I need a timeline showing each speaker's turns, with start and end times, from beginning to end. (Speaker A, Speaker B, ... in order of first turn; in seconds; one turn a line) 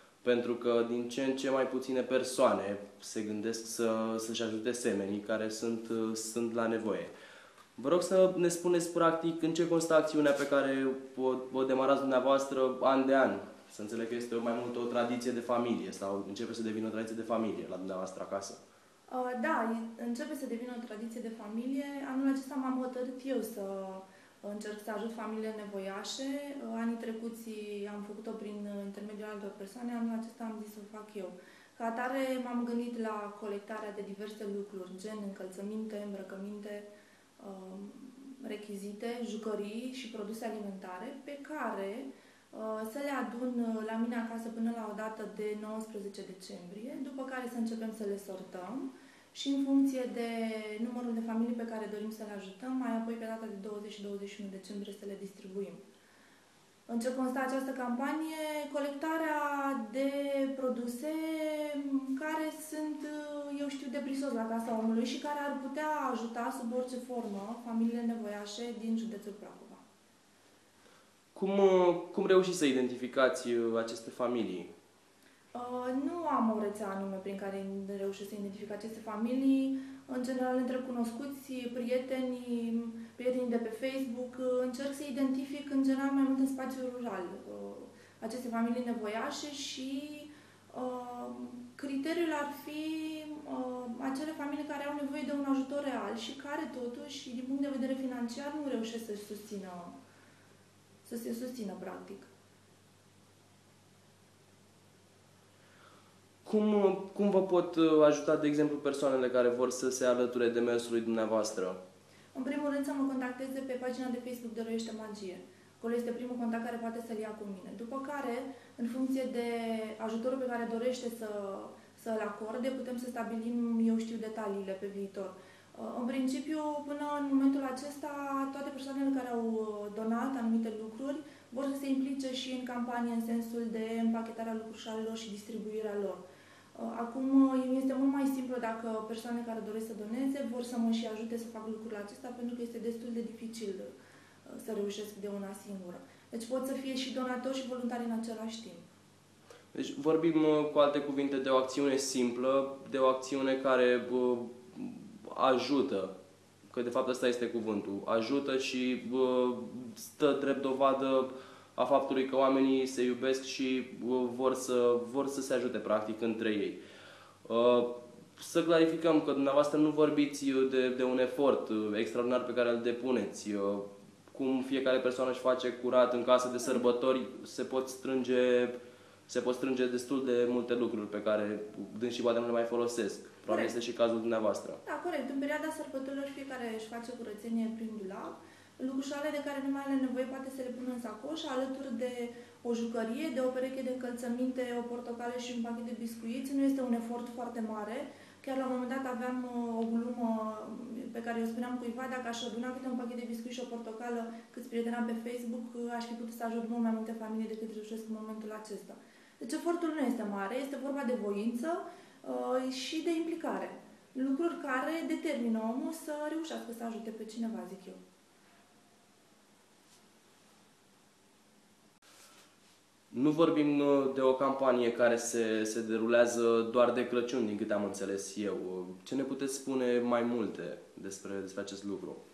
Speaker A: 0.2-7.1
Speaker A: 7.8-18.6
Speaker B: 19.1-36.9
Speaker B: 37.4-55.8
Speaker B: 56.9-69.8
Speaker A: 71.3-74.7
Speaker B: 75.5-100.0
Speaker B: 101.0-102.3
Speaker A: 106.4-111.8
Speaker B: 112.3-136.2
Speaker B: 136.8-143.9
Speaker B: 144.5-148.8
Speaker A: 149.7-156.1
Speaker A: 156.7-166.8
Speaker A: 167.4-184.8
Speaker B: 183.5-183.8
Speaker B: 184.8-218.0
Speaker A: 223.1-232.2